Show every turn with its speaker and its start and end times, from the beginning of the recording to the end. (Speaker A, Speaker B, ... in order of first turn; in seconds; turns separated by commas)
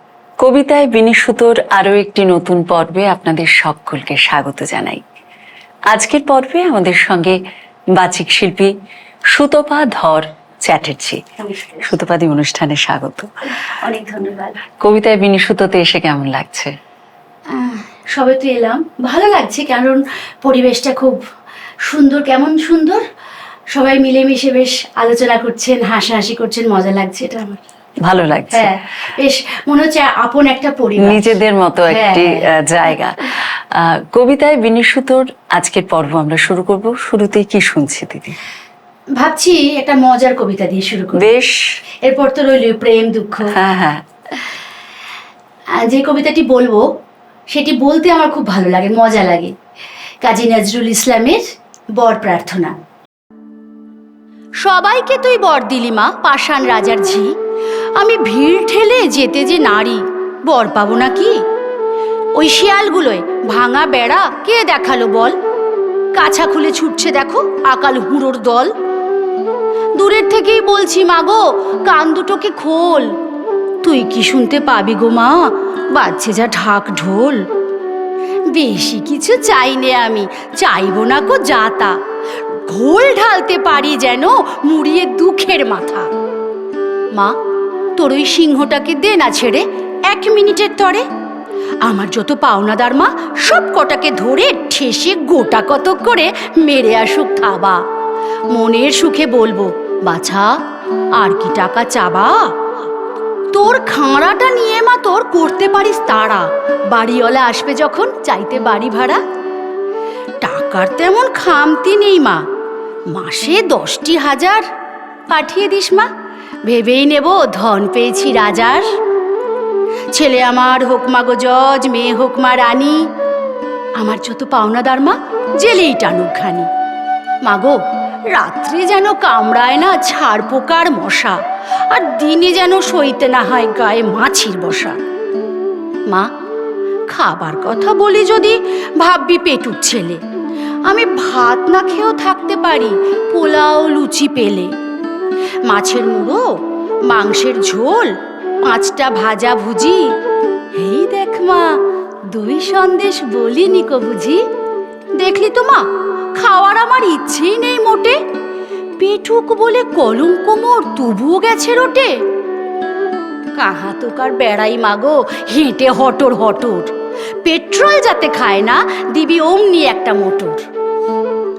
Speaker A: 0.4-5.0, Speaker A: 5.9-7.4, Speaker A: 8.0-8.7, Speaker A: 9.3-11.2, Speaker B: 11.4-11.9, Speaker A: 11.8-13.3, Speaker B: 13.7-14.6, Speaker A: 14.8-16.7, Speaker B: 17.5-21.2, Speaker B: 21.9-23.0, Speaker B: 23.7-27.6, Speaker A: 28.1-28.7, Speaker B: 28.5-31.4, Speaker A: 31.0-38.4, Speaker B: 31.9-32.5, Speaker B: 39.2-41.2, Speaker A: 41.2-41.6, Speaker B: 42.0-43.5, Speaker A: 43.6-44.0, Speaker B: 45.8-46.9, Speaker B: 47.5-49.5, Speaker B: 50.2-51.4, Speaker B: 52.0-52.8, Speaker B: 54.6-57.3, Speaker B: 58.0-61.4, Speaker B: 62.4-65.3, Speaker B: 66.2-68.7, Speaker B: 70.0-73.1, Speaker B: 73.8-77.4, Speaker B: 78.5-82.0, Speaker B: 82.7-86.1, Speaker B: 88.0-91.1, Speaker B: 91.8-97.8, Speaker B: 98.5-100.5, Speaker B: 101.2-102.5, Speaker B: 103.5-109.2, Speaker B: 110.4-112.4, Speaker B: 113.1-114.6, Speaker B: 115.3-116.1, Speaker B: 116.7-118.9, Speaker B: 120.1-123.0, Speaker B: 124.0-126.7, Speaker B: 127.5-127.8, Speaker B: 128.3-131.4, Speaker B: 131.9-135.0, Speaker B: 137.1-140.2, Speaker B: 140.9-144.7, Speaker B: 145.7-146.4, Speaker B: 147.1-150.1, Speaker B: 150.8-151.7, Speaker B: 152.3-154.4, Speaker B: 155.2-158.2, Speaker B: 159.0-162.1, Speaker B: 163.6-166.9, Speaker B: 167.4-170.6